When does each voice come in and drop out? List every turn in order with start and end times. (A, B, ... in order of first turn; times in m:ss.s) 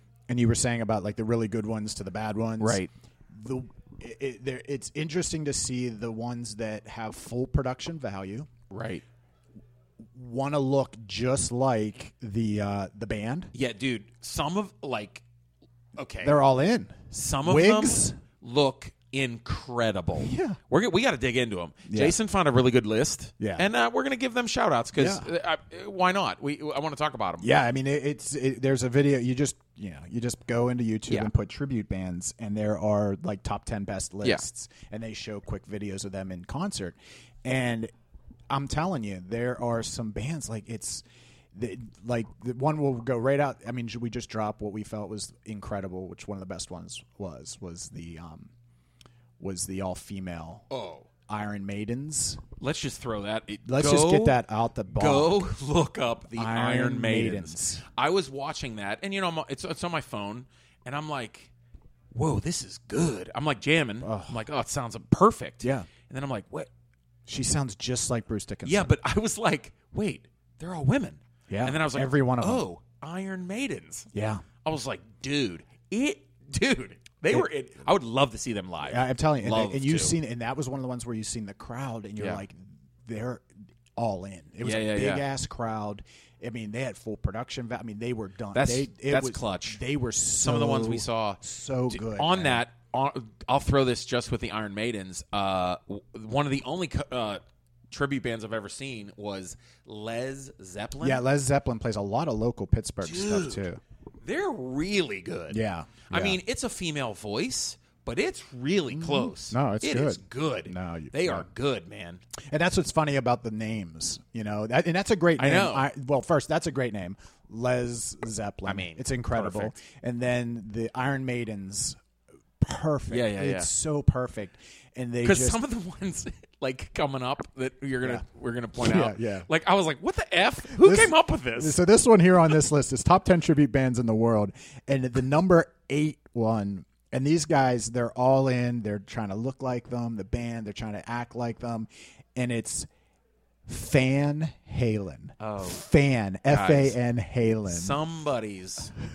0:00.3-0:08.5 A
0:02.6-0:02.9 B
0:08.7-0:09.0 B
0:10.1-0:13.5 A
0:13.5-0:15.2 B
0:16.0-0:16.4 B
0:16.2-0:18.2 A
0:17.1-0:27.5 B
0:20.2-0:20.6 A
0:21.9-0:22.2 A
0:23.4-0:23.6 A
0:24.9-0:25.2 A
0:27.4-0:37.9 A
0:38.5-0:48.5 A
0:49.4-0:50.7 A
0:50.7-0:51.1 B
0:51.3-0:52.4 A
0:52.6-1:01.5 B
0:53.6-0:55.5 A
0:56.3-0:57.8 A
1:02.1-1:06.7 B
1:04.0-1:04.4 A
1:05.6-1:05.9 A
1:07.3-1:08.9 A
1:08.6-1:14.1 B
1:11.5-1:12.6 A
1:14.1-1:14.4 A
1:14.6-1:20.2 B
1:18.8-1:32.6 A
1:22.2-1:22.4 B
1:24.6-1:25.2 B
1:28.5-1:29.8 B
1:30.4-1:41.2 B
1:41.0-1:43.8 A
1:43.0-1:43.7 B
1:44.2-1:52.2 B
1:45.5-1:46.4 A
1:48.9-1:51.5 A
1:52.4-2:02.0 A
1:55.4-1:55.9 B
1:58.6-1:59.7 B
2:02.6-2:05.6 A
2:03.1-2:03.7 B
2:05.2-2:11.8 B
2:08.8-2:09.5 A
2:10.7-2:22.9 A
2:23.7-2:28.0 A
2:25.4-2:25.8 B
2:26.5-2:27.0 B
2:27.6-2:28.9 B